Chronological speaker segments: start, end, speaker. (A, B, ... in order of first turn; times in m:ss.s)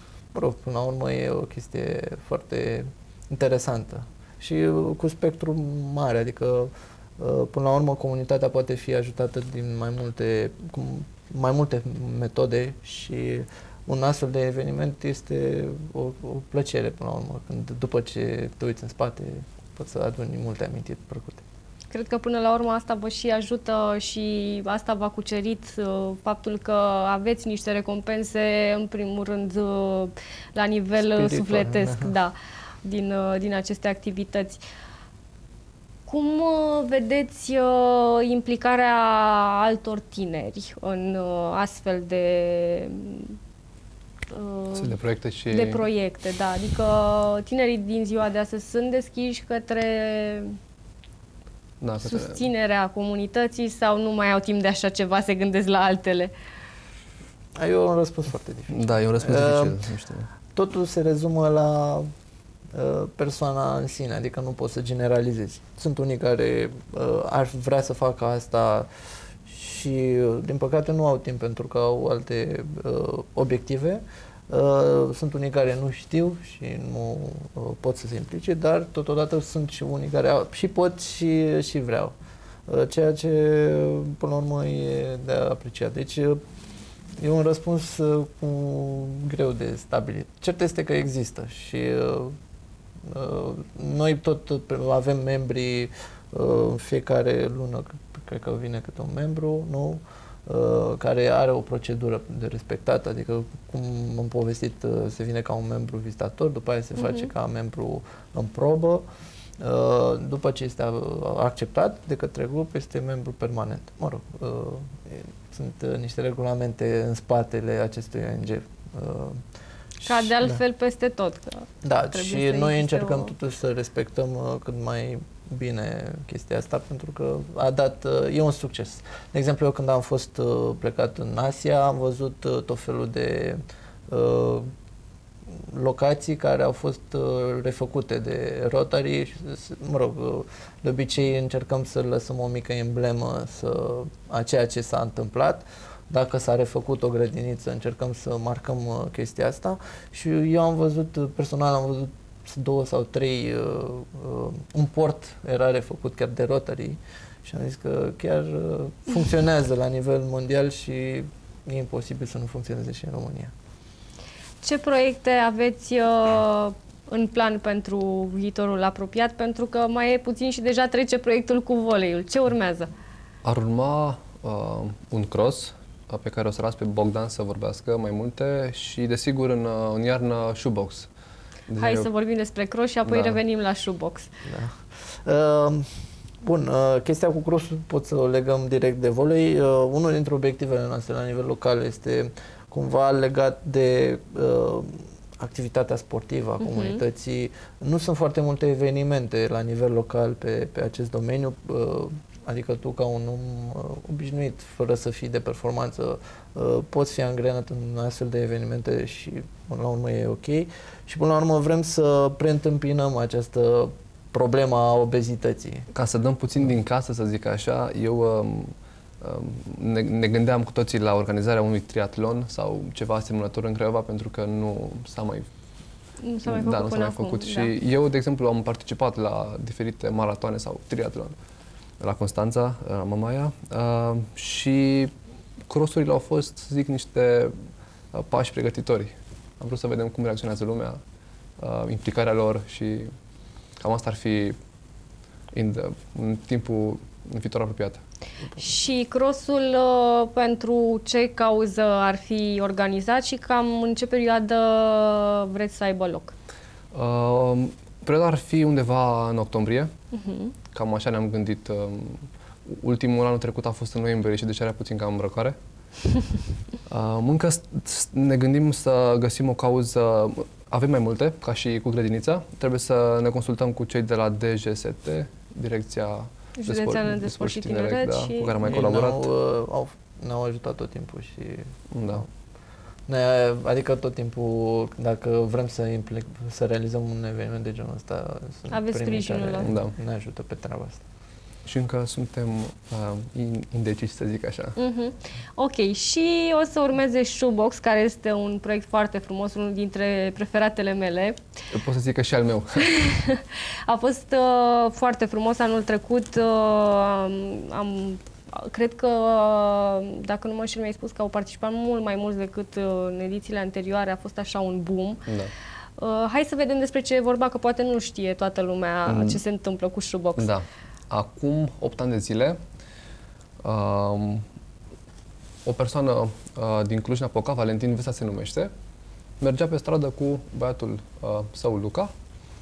0:00.3-0:21.4 A
0:21.9-0:34.6 B
0:31.0-0:32.1 A
0:36.1-0:43.4 B
0:44.3-0:50.5 B
0:44.7-0:45.8 C
0:51.8-0:52.4 C
0:52.0-0:56.3 B
0:57.6-0:59.8 A
0:58.7-1:00.3 C
1:00.5-1:02.1 A
1:02.7-1:08.9 A
1:09.4-1:22.1 A
1:22.7-1:26.4 A
1:27.2-1:32.4 A
1:33.1-1:49.0 A
1:47.0-1:47.3 B
1:49.6-1:59.4 A
2:00.0-2:00.6 A
2:00.0-2:03.3 B
2:01.8-2:14.7 A
2:15.7-2:43.5 A
2:44.6-2:52.9 B
2:53.4-3:01.1 C
3:01.7-3:02.1 C
3:01.8-3:04.3 B
3:03.0-3:03.4 C
3:04.4-3:05.9 A
3:06.4-3:35.8 A
3:16.6-3:17.0 B
3:35.9-3:45.5 C
3:46.2-3:47.7 B
3:46.4-3:51.4 C
3:52.0-3:55.1 C
3:55.7-3:57.5 C
3:58.1-4:01.0 C
4:01.6-4:03.1 C
4:03.8-4:04.6 C
4:05.5-4:08.0 C
4:08.6-4:16.3 B
4:16.9-4:19.9 C
4:20.1-4:20.5 B
4:20.7-4:25.6 C
4:26.9-4:39.3 C
4:36.6-4:38.6 B
4:38.6-4:42.3 A
4:41.9-4:42.2 C
4:43.1-4:51.0 A
4:48.7-4:49.7 B
4:49.6-4:49.9 C
4:51.6-4:54.7 C
4:54.8-5:01.4 B
5:01.7-5:02.9 C
5:02.8-5:15.2 B
5:16.0-5:20.5 B
5:19.0-5:19.4 C
5:20.4-5:22.6 C
5:23.6-5:24.4 C
5:25.6-5:28.7 C
5:29.4-5:32.1 C